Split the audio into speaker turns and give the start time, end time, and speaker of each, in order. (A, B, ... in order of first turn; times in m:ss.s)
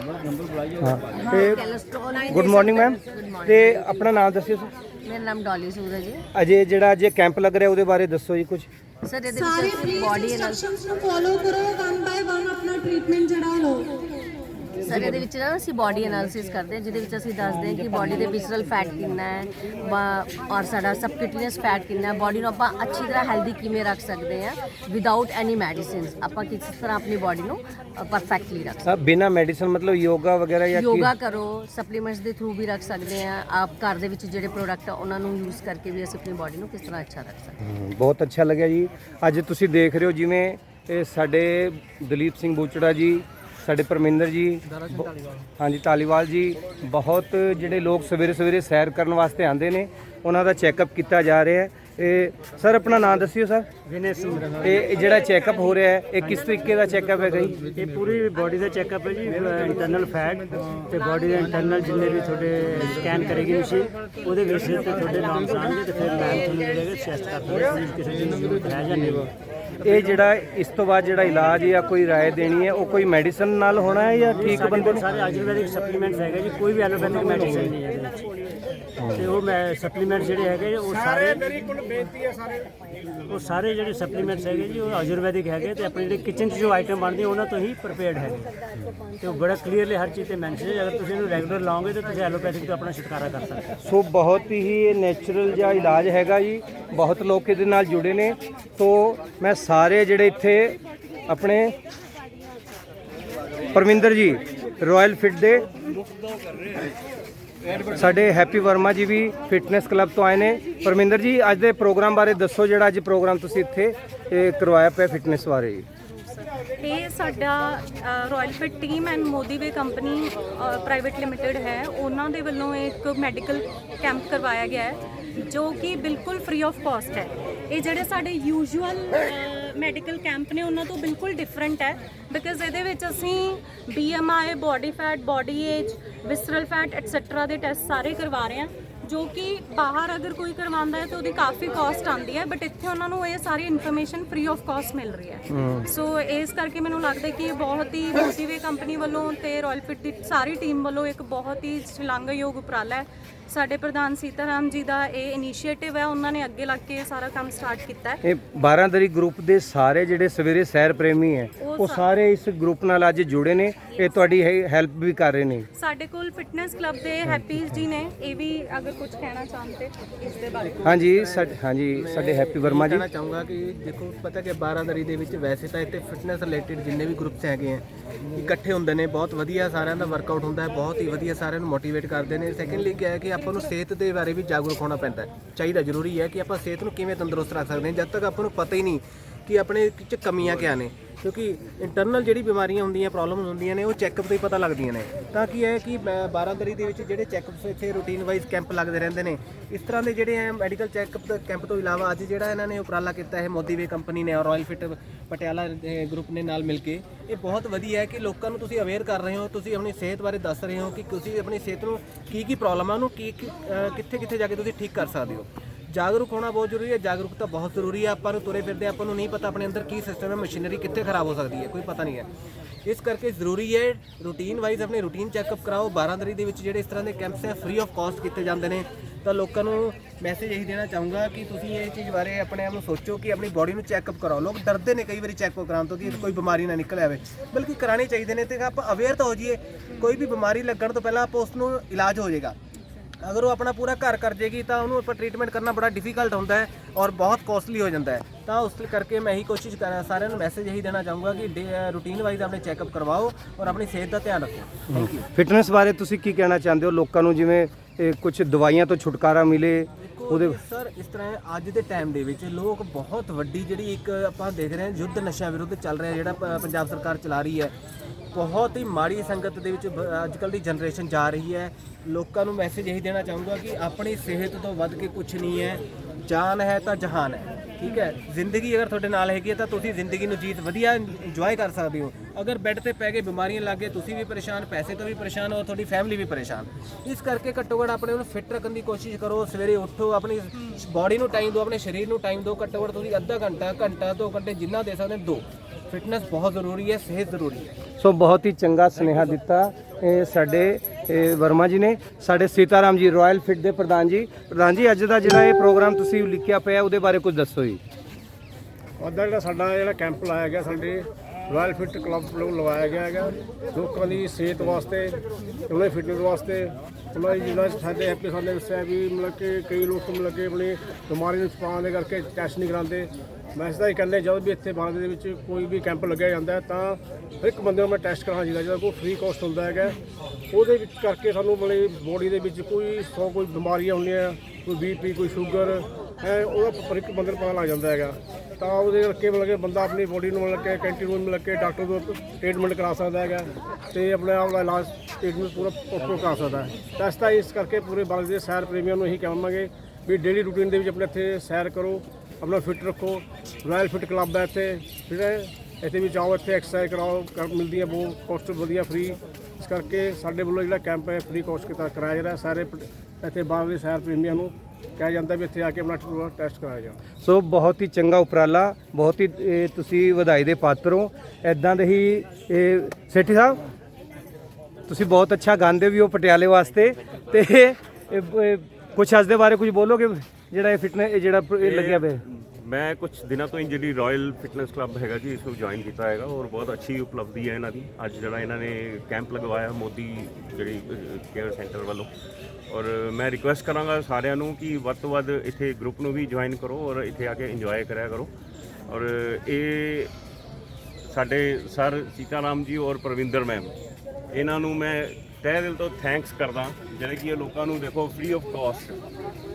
0:00.7-0:01.6 A
0:01.1-0:04.1 B
0:02.3-0:04.7 A
0:05.0-0:06.2 B
0:06.3-0:08.7 A
0:09.0-0:10.6 B
0:09.3-0:13.9 C
0:11.7-0:13.0 D
0:14.8-0:28.9 B
0:28.8-0:31.1 A
0:30.7-0:37.6 B
0:37.6-0:45.0 A
0:44.7-0:45.4 E
0:45.6-0:53.7 A
0:53.8-0:54.8 F
0:54.6-0:57.6 A
0:57.7-1:09.3 F
1:09.8-1:15.0 A
1:14.3-1:18.2 F
1:19.1-1:21.4 F
1:20.8-1:22.7 G
1:23.2-1:28.5 F
1:29.2-1:33.7 F
1:33.8-1:41.8 A
1:43.7-1:45.7 A
1:47.8-1:55.9 A
1:56.8-2:38.2 D
2:38.2-2:45.7 A
2:41.6-2:42.0 D
2:45.7-2:50.0 D
2:50.4-3:42.3 E
2:50.8-2:53.0 A
3:42.8-4:02.6 E
4:03.2-4:15.3 E
4:15.3-4:20.6 A
4:20.0-4:27.7 E
4:28.3-4:57.8 E
4:58.0-5:07.8 A
5:09.0-5:30.0 G
5:30.5-6:07.0 G
6:07.2-6:13.6 A
6:14.9-6:22.2 A
6:21.6-6:32.1 H
6:32.7-6:38.3 H
6:38.9-6:40.1 H
6:41.1-6:43.7 H
6:44.3-6:49.0 H